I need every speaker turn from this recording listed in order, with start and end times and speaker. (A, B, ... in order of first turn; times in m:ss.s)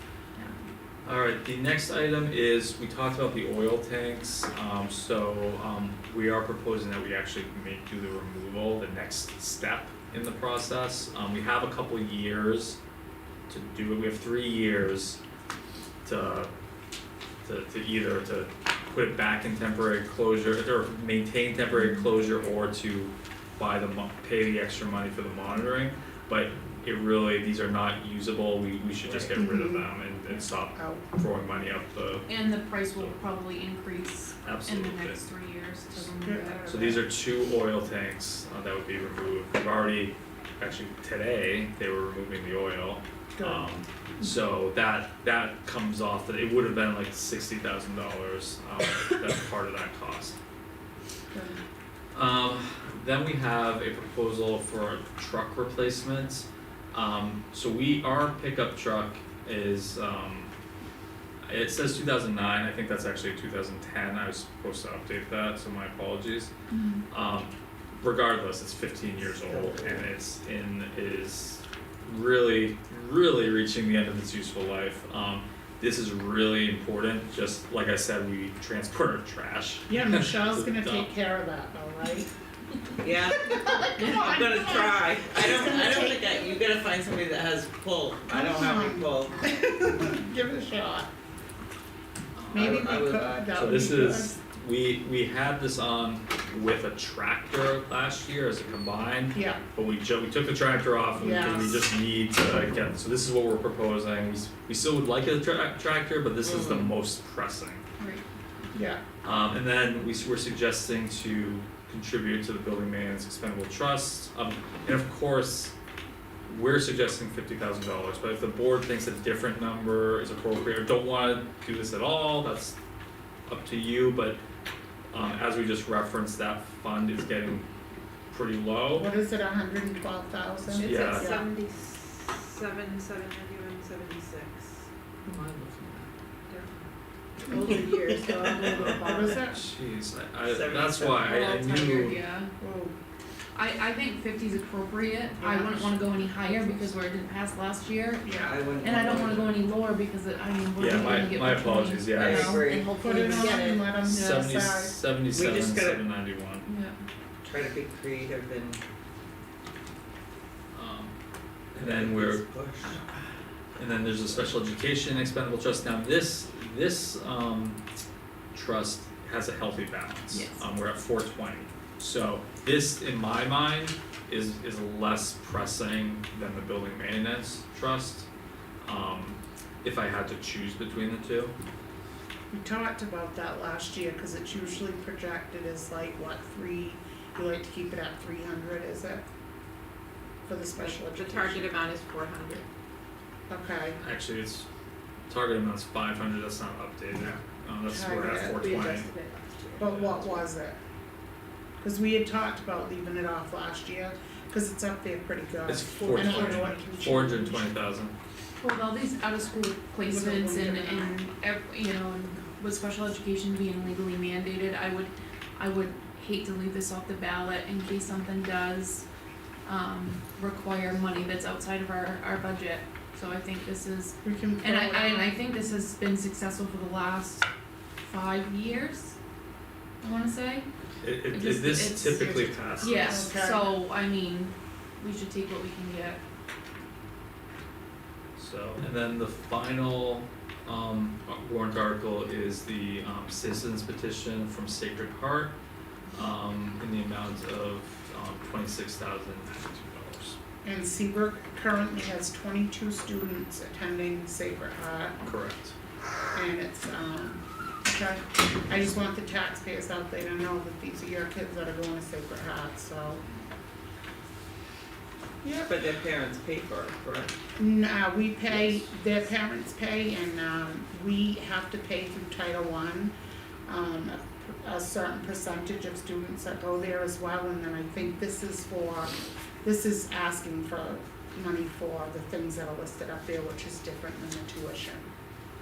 0:00.3-0:00.6 A
0:01.0-0:12.8 B
0:13.5-0:15.2 B
0:16.0-0:16.5 B
0:17.4-0:32.4 B
0:21.8-0:22.0 A
0:29.0-0:29.4 C
0:29.3-0:29.9 D
0:30.7-0:31.0 D
0:32.3-0:36.7 A
0:34.4-0:35.2 B
0:35.9-0:37.1 D
0:36.7-0:50.4 B
0:43.4-0:43.7 D
0:51.3-0:51.6 D
0:52.1-1:00.5 B
1:01.4-1:06.5 B
1:06.7-1:07.0 A
1:07.1-1:07.5 B
1:08.0-1:21.1 B
1:09.3-1:10.1 D
1:19.9-1:22.3 D
1:23.0-1:29.3 C
1:23.5-1:26.6 D
1:28.3-1:31.1 D
1:32.4-1:32.9 B
1:32.5-1:33.4 C
1:32.5-1:34.4 D
1:33.5-1:47.8 B
1:39.3-1:39.6 D
1:41.1-1:41.9 D
1:46.4-1:46.9 C
1:48.7-1:49.0 D
1:49.2-1:55.7 B
1:56.5-2:02.8 B
2:03.5-2:04.4 B
2:05.1-2:07.7 B
2:08.3-2:09.1 B
2:08.9-2:11.5 D
2:10.8-2:11.3 A
2:10.8-2:11.3 B
2:10.8-2:14.7 E
2:15.3-2:16.0 B
2:17.4-2:19.4 A
2:17.8-2:18.9 C
2:18.7-2:22.2 B
2:18.8-2:19.6 D
2:20.5-2:21.3 C
2:21.2-2:22.5 A
2:22.6-2:22.9 D
2:23.5-2:32.7 A
2:25.4-2:26.9 D
2:28.2-2:28.6 D
2:28.3-2:29.6 C
2:30.8-2:32.7 B
2:32.1-2:33.9 C
2:32.7-2:33.8 E
2:32.9-2:35.0 D
2:34.0-2:36.7 B
2:34.1-2:34.4 A
2:35.3-2:36.0 C
2:36.6-2:37.0 A
2:37.4-2:38.8 C
2:40.7-2:41.1 B
2:41.7-2:42.4 B
2:41.7-2:43.0 C
2:43.8-2:47.8 B
2:48.5-2:58.3 B
2:50.3-2:50.7 A
2:58.8-3:01.5 B
3:02.5-3:09.2 D
3:10.4-3:11.8 D
3:10.8-3:12.6 E
3:13.5-3:14.0 D
3:14.0-3:14.7 B
3:15.3-3:19.1 B
3:17.8-3:19.1 D
3:18.6-3:19.8 E
3:19.8-3:20.8 D
3:19.8-3:20.4 B
3:21.8-3:27.7 D
3:25.7-3:28.1 B
3:28.6-3:39.0 A
3:30.1-3:31.1 D
3:39.6-3:47.5 A
3:44.2-3:45.4 D
3:48.0-3:49.2 A
3:50.0-3:50.6 A
3:51.0-3:53.3 B
3:51.3-3:56.2 A
3:52.9-3:53.7 D
3:58.4-4:05.6 B
4:06.1-4:10.4 B
4:10.6-4:15.2 D
4:15.2-4:15.7 B
4:16.3-4:23.2 D
4:25.4-4:25.7 D
4:25.6-4:27.3 C
4:27.6-4:33.1 D
4:33.6-4:45.1 D